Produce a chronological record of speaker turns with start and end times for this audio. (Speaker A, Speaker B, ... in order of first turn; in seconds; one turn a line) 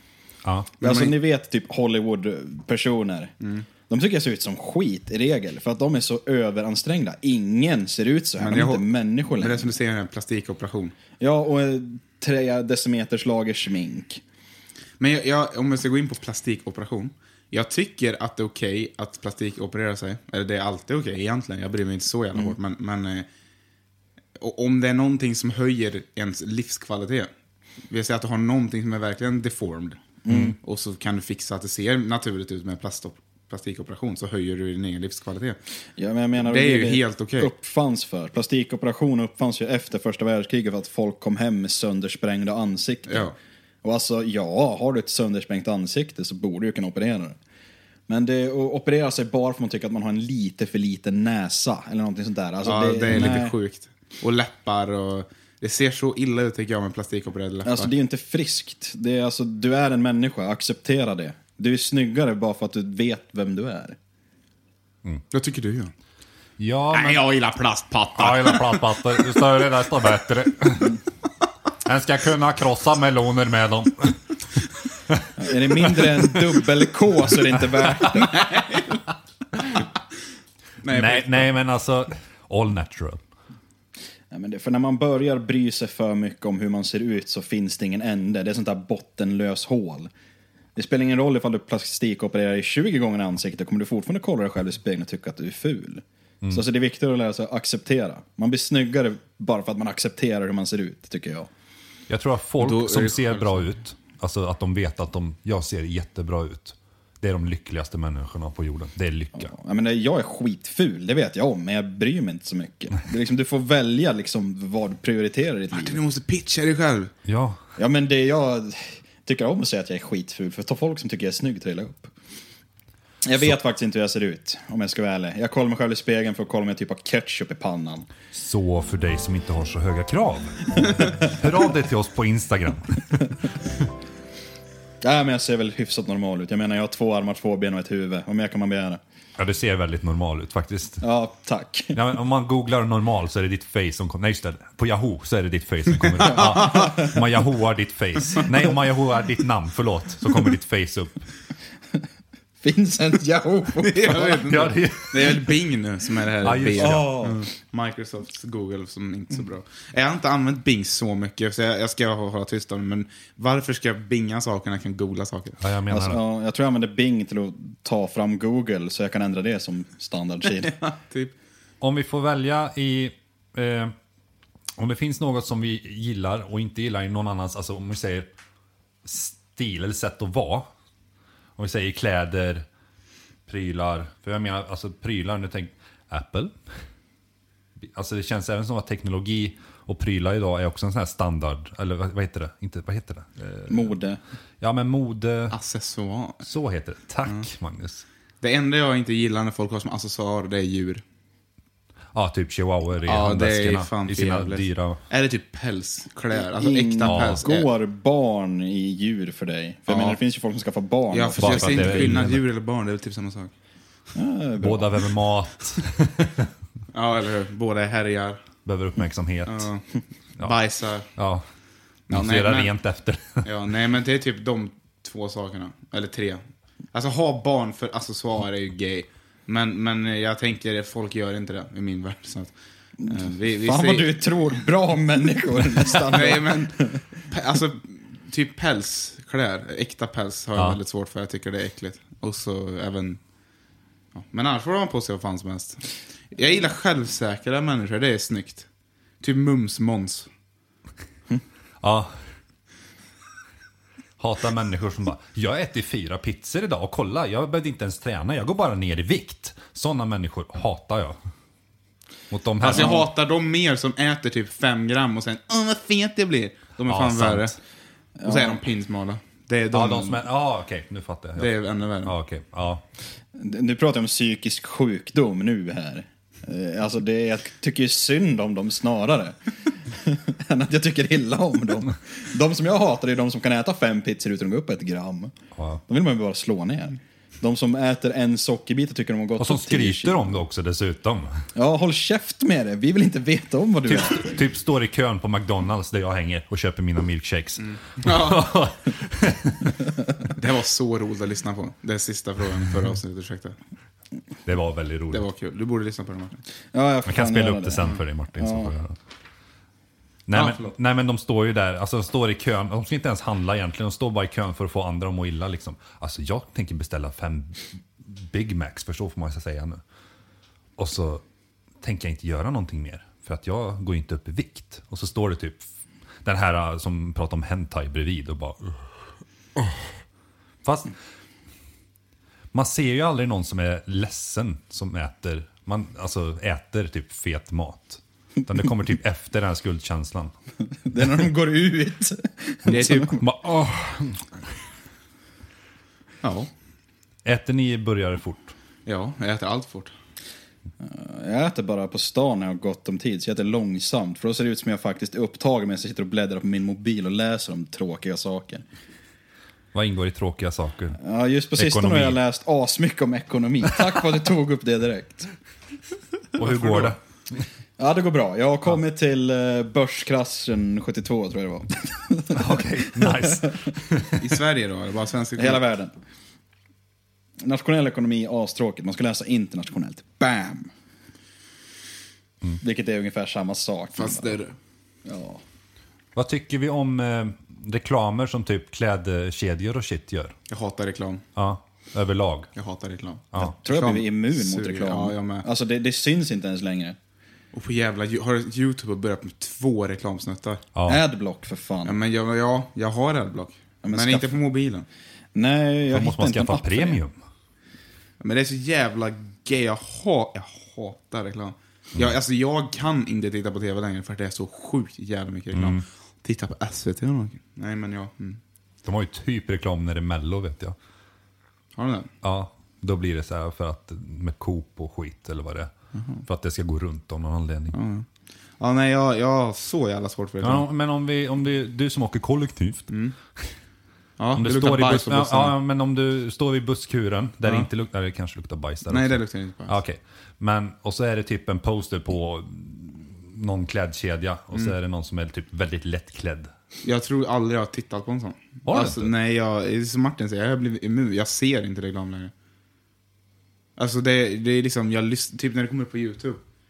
Speaker A: 0.5-0.8
Speaker B: 0.8-1.1
Speaker C: 0.8-3.3
Speaker C: 3.9-9.7
Speaker B: 8.4-11.0
Speaker C: 11.2-14.2
Speaker B: 15.0-23.3
Speaker B: 24.4-27.3
Speaker B: 27.9-35.6
Speaker C: 30.2-30.6
Speaker A: 30.3-30.6
Speaker C: 36.0-47.4
Speaker B: 36.4-37.5
Speaker B: 43.1-43.4
Speaker C: 48.1-53.5
Speaker B: 52.6-57.9
Speaker C: 57.6-64.0
Speaker B: 65.3-65.9
Speaker A: 66.6-67.2
Speaker B: 66.9-69.0
Speaker A: 68.2-71.0
Speaker A: 71.8-74.2
Speaker C: 75.4-78.5
Speaker B: 78.1-79.0
Speaker B: 80.8-81.5
Speaker A: 80.9-83.2
Speaker C: 84.3-90.1
Speaker C: 90.8-101.5
Speaker A: 102.1-109.5
Speaker B: 102.6-103.7
Speaker C: 109.4-116.0
Speaker B: 115.7-117.1
Speaker A: 117.3-117.6
Speaker C: 117.8-122.1
Speaker C: 123.2-128.1
Speaker A: 128.3-133.4
Speaker C: 135.0-139.0
Speaker A: 139.4-141.0
Speaker C: 141.0-142.0
Speaker A: 141.9-151.3
Speaker B: 146.2-147.0
Speaker C: 146.7-147.1
Speaker C: 152.6-154.5
Speaker B: 153.8-165.6
Speaker A: 154.5-155.4
Speaker A: 156.4-157.2
Speaker C: 156.8-157.5
Speaker A: 165.6-166.2
Speaker C: 165.9-170.8
Speaker B: 170.6-171.3
Speaker A: 171.8-173.9
Speaker A: 174.8-178.3
Speaker A: 179.0-180.7
Speaker A: 181.6-182.7
Speaker A: 183.5-186.6
Speaker A: 187.9-193.9
Speaker C: 193.7-194.2
Speaker A: 194.6-195.6
Speaker B: 195.5-196.4
Speaker A: 196.4-198.1
Speaker B: 198.4-201.0
Speaker A: 202.1-205.0
Speaker B: 203.0-207.7
Speaker C: 206.5-212.2
Speaker A: 207.1-207.4
Speaker B: 209.9-210.2
Speaker B: 211.1-213.5
Speaker A: 211.4-212.4
Speaker C: 214.1-215.1
Speaker A: 214.6-216.5
Speaker B: 216.9-218.4
Speaker A: 218.7-219.7
Speaker B: 219.5-219.9
Speaker B: 220.4-221.1
Speaker A: 221.2-221.4
Speaker B: 222.1-222.7
Speaker A: 222.1-223.5
Speaker B: 223.4-226.4
Speaker B: 226.9-232.5
Speaker C: 233.0-237.0
Speaker B: 233.1-234.2
Speaker B: 236.1-243.2
Speaker B: 244.2-248.7
Speaker B: 249.2-250.3
Speaker A: 251.8-252.1
Speaker A: 254.2-261.2
Speaker A: 262.3-263.0
Speaker B: 262.6-267.6
Speaker C: 262.7-263.0
Speaker A: 266.9-267.6
Speaker C: 268.2-268.6
Speaker B: 268.2-270.2
Speaker A: 269.7-271.5
Speaker B: 271.4-272.1
Speaker A: 272.0-272.8
Speaker C: 273.4-285.3
Speaker A: 285.6-285.8
Speaker C: 285.9-290.4
Speaker A: 289.4-291.4
Speaker C: 291.6-294.4
Speaker A: 293.9-299.8
Speaker B: 297.6-298.5
Speaker B: 300.3-303.6
Speaker A: 304.5-305.3
Speaker B: 305.1-306.4
Speaker C: 306.7-308.7
Speaker A: 307.1-308.9
Speaker A: 310.3-319.8
Speaker B: 310.3-310.7
Speaker A: 320.8-321.2
Speaker A: 321.8-325.7
Speaker A: 326.2-328.6
Speaker A: 330.6-330.9
Speaker A: 332.5-340.3
Speaker C: 340.9-343.2
Speaker B: 342.7-343.2
Speaker A: 343.2-344.2
Speaker B: 346.2-346.5
Speaker A: 347.2-348.5
Speaker B: 348.9-349.9
Speaker C: 350.8-358.6
Speaker A: 359.7-361.0
Speaker C: 361.0-365.3
Speaker A: 361.6-362.2
Speaker A: 366.4-367.0
Speaker C: 366.5-366.9
Speaker C: 367.8-373.4
Speaker A: 372.3-374.2
Speaker B: 374.2-375.6
Speaker C: 375.4-375.9
Speaker C: 377.4-380.7
Speaker C: 382.6-384.4
Speaker B: 383.9-384.6
Speaker C: 385.1-385.4
Speaker A: 386.1-390.4
Speaker B: 390.5-391.2
Speaker A: 391.4-392.5
Speaker B: 392.6-395.5
Speaker C: 393.4-397.0
Speaker B: 397.5-400.6
Speaker A: 400.8-401.0
Speaker C: 400.9-402.0
Speaker B: 401.9-404.9
Speaker C: 403.8-404.3
Speaker C: 405.3-407.0
Speaker A: 405.9-407.2
Speaker B: 408.2-418.4
Speaker A: 415.5-415.9
Speaker A: 418.9-420.8
Speaker B: 421.8-422.1
Speaker A: 422.2-425.7
Speaker B: 425.9-426.2
Speaker A: 426.2-427.8
Speaker B: 427.7-428.1
Speaker B: 428.6-430.7
Speaker A: 430.4-432.9
Speaker B: 432.9-433.1
Speaker B: 434.2-435.5
Speaker A: 434.4-446.5
Speaker B: 438.9-439.8
Speaker B: 446.8-452.3
Speaker A: 448.7-449.1
Speaker B: 453.8-456.4